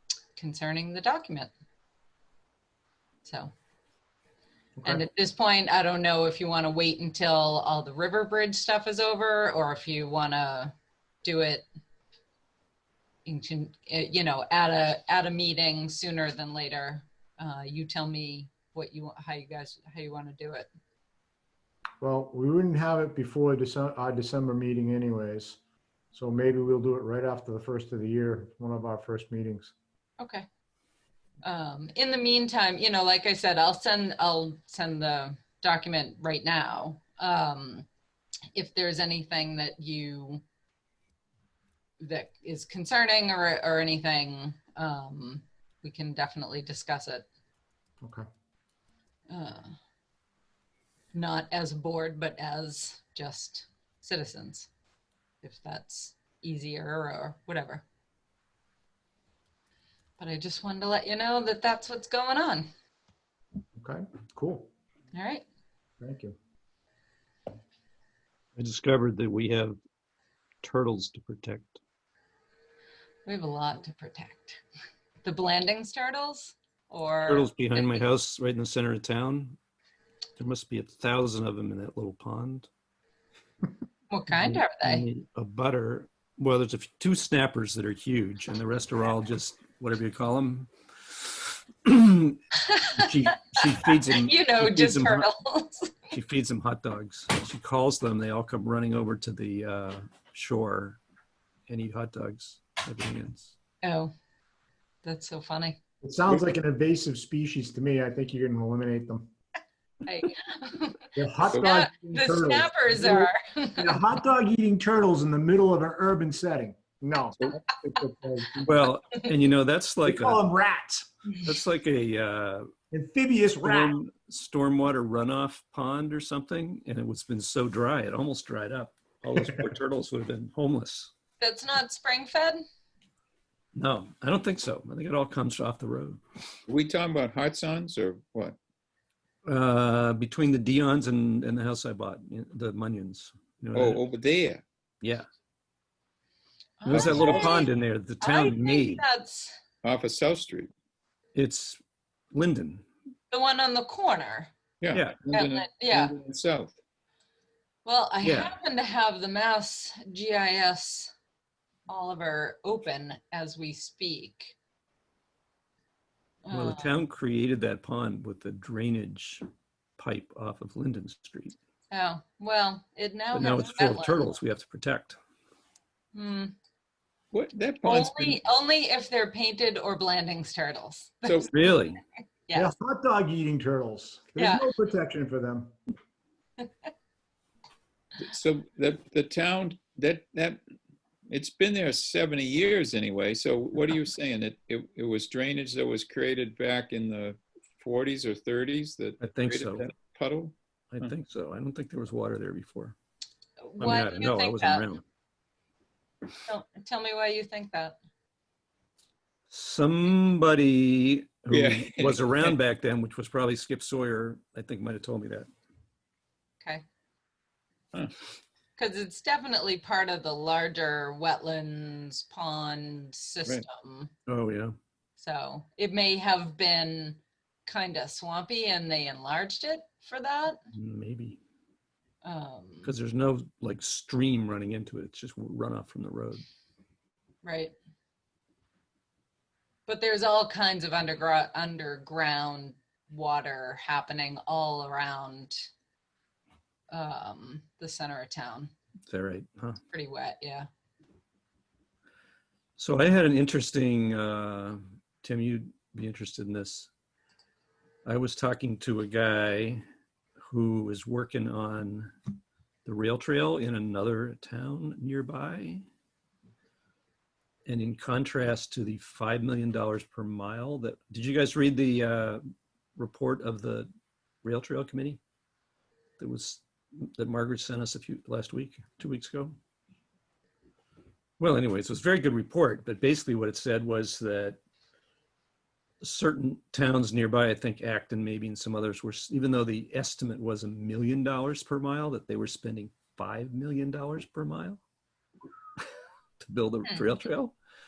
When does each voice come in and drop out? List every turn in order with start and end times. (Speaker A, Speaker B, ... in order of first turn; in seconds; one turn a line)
Speaker A: 0.4-1.5
Speaker A: 3.2-3.5
Speaker B: 4.8-5.0
Speaker A: 4.8-10.7
Speaker A: 11.2-11.7
Speaker A: 13.2-20.7
Speaker B: 22.0-25.6
Speaker B: 26.1-29.7
Speaker A: 30.2-30.4
Speaker A: 31.4-37.9
Speaker A: 38.5-40.4
Speaker A: 42.0-47.3
Speaker A: 49.3-49.7
Speaker A: 51.1-54.7
Speaker A: 55.4-57.9
Speaker A: 60.2-62.7
Speaker B: 63.8-64.7
Speaker A: 65.1-65.5
Speaker B: 66.0-66.3
Speaker C: 68.6-69.8
Speaker C: 70.6-71.8
Speaker A: 73.2-74.6
Speaker A: 75.2-78.0
Speaker C: 77.2-79.6
Speaker C: 80.4-82.7
Speaker A: 84.1-85.0
Speaker C: 84.3-95.3
Speaker A: 92.7-96.0
Speaker C: 96.1-101.0
Speaker C: 101.7-103.5
Speaker A: 103.8-104.1
Speaker A: 105.0-105.8
Speaker B: 106.0-109.3
Speaker A: 110.0-111.0
Speaker B: 111.2-118.7
Speaker A: 111.6-114.0
Speaker C: 118.6-120.4
Speaker B: 120.0-121.0
Speaker C: 121.4-122.7
Speaker B: 122.9-123.9
Speaker C: 123.6-131.1
Speaker A: 131.4-132.6
Speaker C: 133.8-136.2
Speaker D: 136.7-138.6
Speaker C: 139.5-144.0
Speaker D: 143.7-144.6
Speaker A: 146.8-147.7
Speaker D: 146.9-147.5
Speaker C: 146.9-149.1
Speaker A: 148.2-149.6
Speaker D: 149.8-150.7
Speaker C: 151.3-151.8
Speaker C: 152.3-152.8
Speaker A: 153.3-154.5
Speaker D: 154.8-156.8
Speaker C: 154.9-155.3
Speaker A: 155.3-156.2
Speaker A: 157.8-161.1
Speaker C: 158.2-158.6
Speaker A: 161.9-164.6
Speaker A: 166.4-167.0
Speaker C: 166.5-169.4
Speaker C: 170.0-171.6
Speaker A: 171.9-174.3
Speaker C: 173.3-175.2
Speaker A: 176.1-176.6
Speaker D: 177.3-178.4
Speaker A: 177.8-181.9
Speaker C: 181.5-182.0
Speaker A: 182.5-182.7
Speaker B: 182.5-185.7
Speaker A: 184.4-184.7
Speaker A: 186.6-186.9
Speaker D: 188.2-190.6
Speaker D: 191.3-201.1
Speaker C: 199.2-199.9
Speaker C: 200.9-202.9
Speaker A: 203.7-204.9
Speaker C: 203.8-205.0
Speaker A: 206.4-208.0
Speaker C: 209.5-215.5
Speaker D: 211.5-212.6
Speaker A: 218.8-224.1
Speaker C: 224.3-224.7
Speaker A: 225.2-230.6
Speaker C: 230.7-231.4
Speaker A: 232.2-232.9
Speaker C: 232.8-236.4
Speaker A: 237.4-237.8
Speaker A: 239.9-245.7
Speaker A: 246.9-248.7
Speaker C: 249.1-249.8
Speaker A: 249.9-250.7
Speaker C: 252.8-256.9
Speaker C: 258.1-259.8
Speaker C: 260.5-262.1
Speaker C: 262.9-265.9
Speaker C: 267.7-272.4
Speaker C: 273.0-273.9
Speaker C: 274.4-275.2
Speaker C: 276.2-279.6
Speaker C: 281.4-284.6
Speaker C: 286.0-294.8
Speaker C: 296.4-297.6